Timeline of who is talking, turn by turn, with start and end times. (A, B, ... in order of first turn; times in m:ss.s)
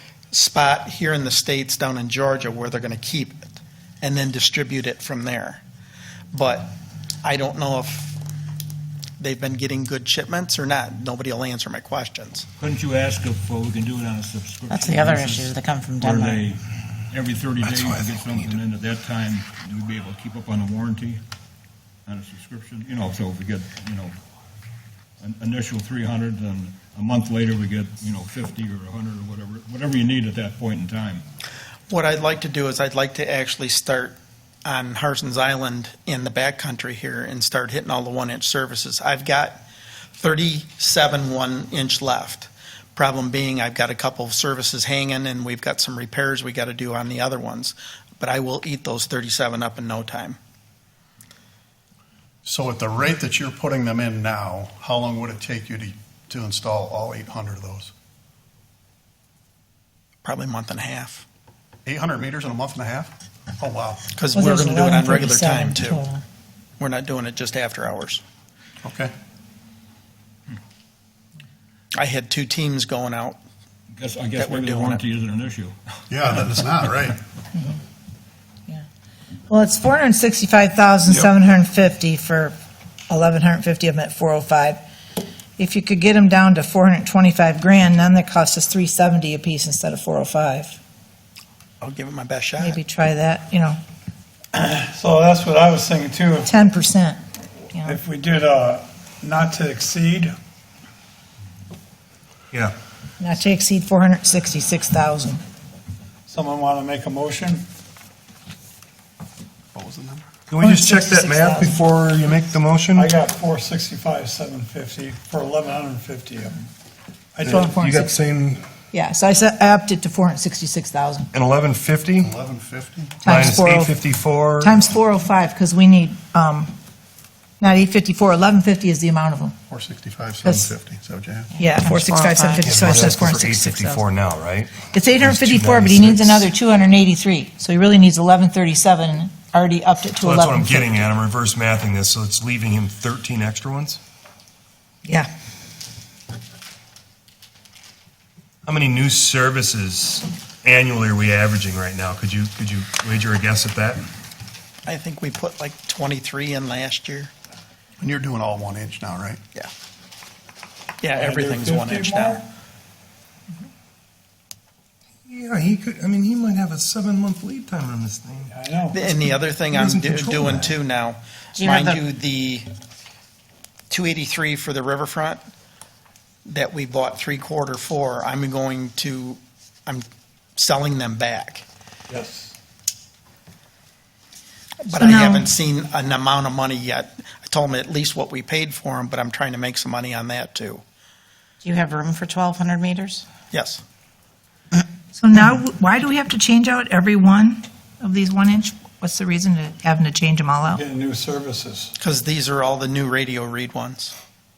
0:00.3-0:03.5 A
0:04.0-0:05.6 A
0:06.3-0:08.2 A
0:09.2-0:12.5 A
0:12.6-0:21.2 B
0:14.7-0:16.5 C
0:17.6-0:18.6 D
0:22.1-0:24.2 B
0:25.2-0:31.2 B
0:31.9-0:39.6 A
0:40.2-0:50.4 A
0:52.4-0:57.9 E
1:00.2-1:01.3 A
1:01.9-1:04.0 E
1:04.1-1:06.0 A
1:04.3-1:06.2 F
1:06.8-1:08.2 A
1:08.8-1:09.1 E
1:12.0-1:13.4 A
1:14.0-1:15.8 B
1:14.4-1:15.0 A
1:16.1-1:17.2 E
1:17.5-1:17.8 F
1:19.5-1:22.6 F
1:23.1-1:24.8 F
1:25.6-1:30.8 F
1:31.8-1:32.8 A
1:32.6-1:33.8 F
1:34.5-1:36.5 G
1:36.5-1:37.2 F
1:37.7-1:38.0 F
1:37.8-1:40.4 G
1:43.2-1:45.4 F
1:46.3-1:47.7 G
1:49.7-1:50.2 E
1:50.5-1:53.1 D
1:50.6-1:51.8 F
1:52.9-1:56.6 G
1:57.4-1:57.7 G
1:57.4-1:58.6 D
1:57.6-1:58.1 F
1:58.9-2:01.3 F
2:01.3-2:02.3 D
2:02.2-2:03.4 E
2:03.2-2:04.0 F
2:03.3-2:04.8 D
2:04.6-2:06.7 F
2:07.6-2:09.6 F
2:09.7-2:11.5 E
2:10.4-2:10.7 F
2:11.6-2:12.9 C
2:11.6-2:14.0 F
2:12.6-2:16.5 D
2:14.9-2:21.0 F
2:20.2-2:24.0 D
2:28.7-2:34.0 D
2:34.9-2:37.3 A
2:38.0-2:39.4 E
2:41.0-2:42.4 A
2:41.1-2:42.4 G
2:45.3-2:48.5 D
2:48.5-2:49.0 G
2:48.9-2:52.7 A
2:49.7-2:50.7 D
2:51.6-2:52.0 C
2:53.9-2:55.4 A
2:56.5-3:01.7 A
3:02.1-3:02.5 G
3:04.8-3:10.8 A
3:04.9-3:05.5 F
3:11.6-3:13.3 C
3:13.5-3:13.8 A
3:15.1-3:20.8 F
3:20.7-3:21.9 G
3:22.0-3:24.2 A